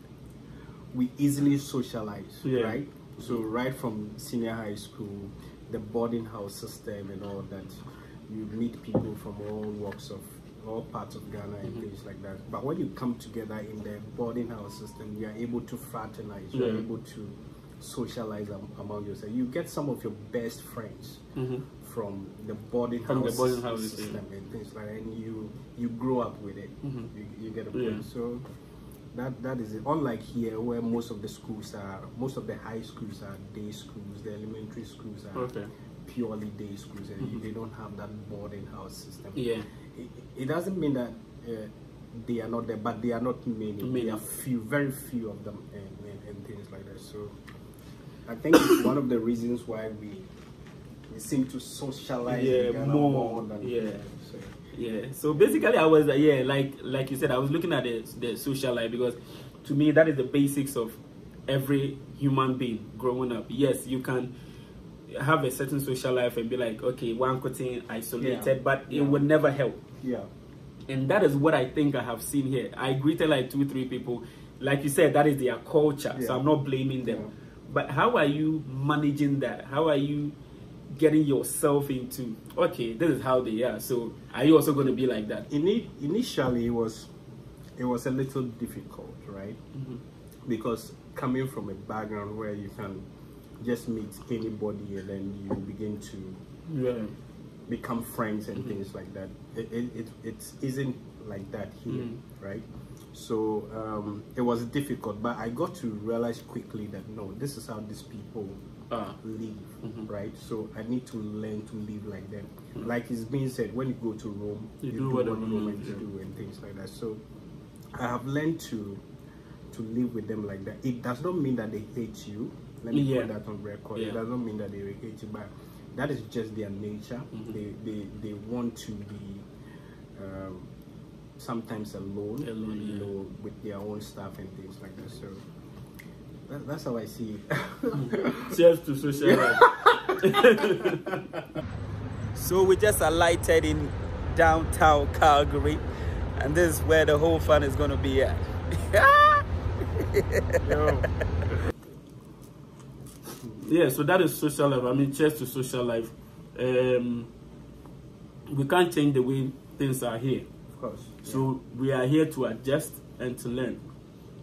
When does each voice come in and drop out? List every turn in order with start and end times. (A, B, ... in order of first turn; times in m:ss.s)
0:00.9-0:21.2 A
0:02.4-0:03.4 B
0:16.5-0:16.8 B
0:21.4-0:21.7 B
0:21.8-0:28.4 A
0:23.1-0:24.2 B
0:26.8-0:27.1 B
0:27.7-0:28.0 B
0:29.1-0:47.4 A
0:35.3-0:35.7 B
0:39.3-0:39.7 B
0:43.8-0:44.2 B
0:48.2-0:50.3 A
0:51.1-0:54.6 A
0:52.3-0:54.0 B
0:54.7-1:04.3 B
0:55.3-0:55.7 A
1:05.1-1:09.8 B
1:08.2-1:09.3 A
1:10.0-1:10.3 A
1:10.9-1:20.3 B
1:16.1-1:16.4 A
1:17.0-1:17.3 A
1:20.9-1:25.5 B
1:25.5-1:27.1 A
1:27.8-1:29.6 A
1:30.5-1:33.0 A
1:33.6-1:36.4 A
1:36.7-1:37.1 B
1:37.7-1:48.6 A
1:41.9-1:42.2 B
1:48.9-1:49.2 B
1:49.2-1:57.2 A
1:49.8-1:50.1 B
1:54.8-1:56.0 B
1:57.9-1:59.0 A
1:59.7-2:09.5 A
2:02.9-2:03.3 B
2:10.2-2:10.7 A
2:11.4-2:15.4 A
2:12.4-2:13.1 B
2:16.5-2:18.6 A
2:17.9-2:19.7 B
2:19.2-2:21.4 A
2:20.2-2:21.1 B
2:22.3-2:25.8 B
2:26.4-2:29.4 B
2:30.0-2:31.1 B
2:30.6-2:31.1 A
2:33.6-2:37.3 B
2:38.5-2:40.5 B
2:40.7-2:41.5 A
2:41.2-2:43.8 B